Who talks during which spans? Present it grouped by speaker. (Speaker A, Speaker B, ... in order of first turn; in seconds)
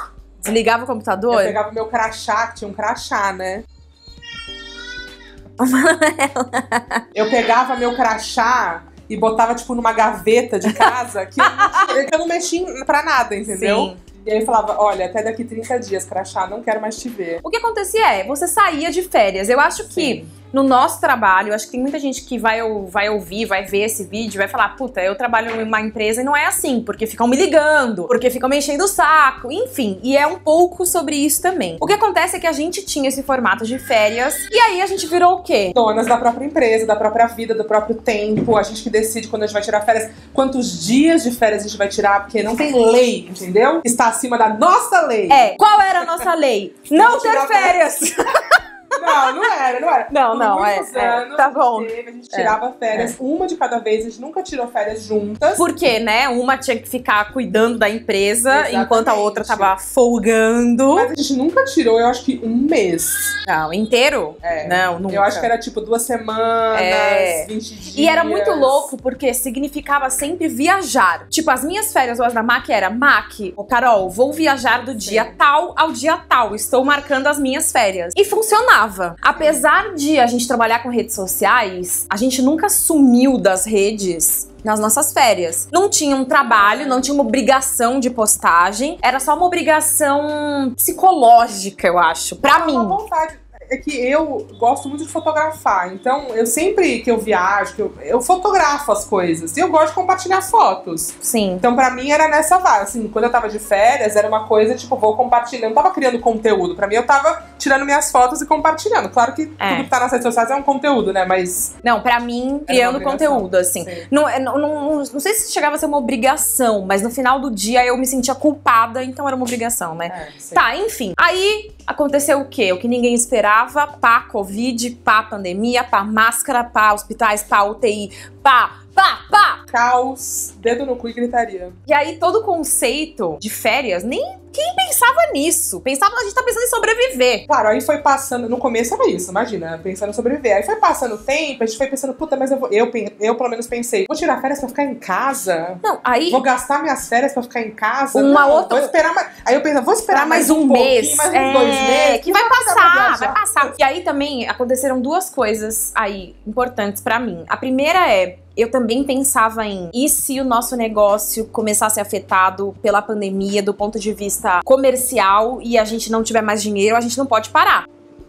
Speaker A: 0.4-1.6, 5.6-7.0, 10.7-12.0, 13.4-14.0, 17.4-35.8, 45.3-49.3, 50.1-53.1, 55.5-61.1, 63.5-65.5, 66.7-93.0, 101.2-101.6, 109.6-109.9, 111.8-129.6, 131.9-137.4, 145.8-146.4, 148.1-148.9, 150.1-167.9
Speaker B: 1.3-3.6, 7.1-17.4, 19.9-20.3, 35.7-46.3, 46.9-48.0, 49.0-55.6, 58.5-59.7, 60.9-63.4, 64.4-68.9, 74.8-75.3, 79.3-79.6, 86.4-87.1, 92.4-111.7, 112.7-114.1, 120.1-120.6, 129.7-131.8, 137.5-153.7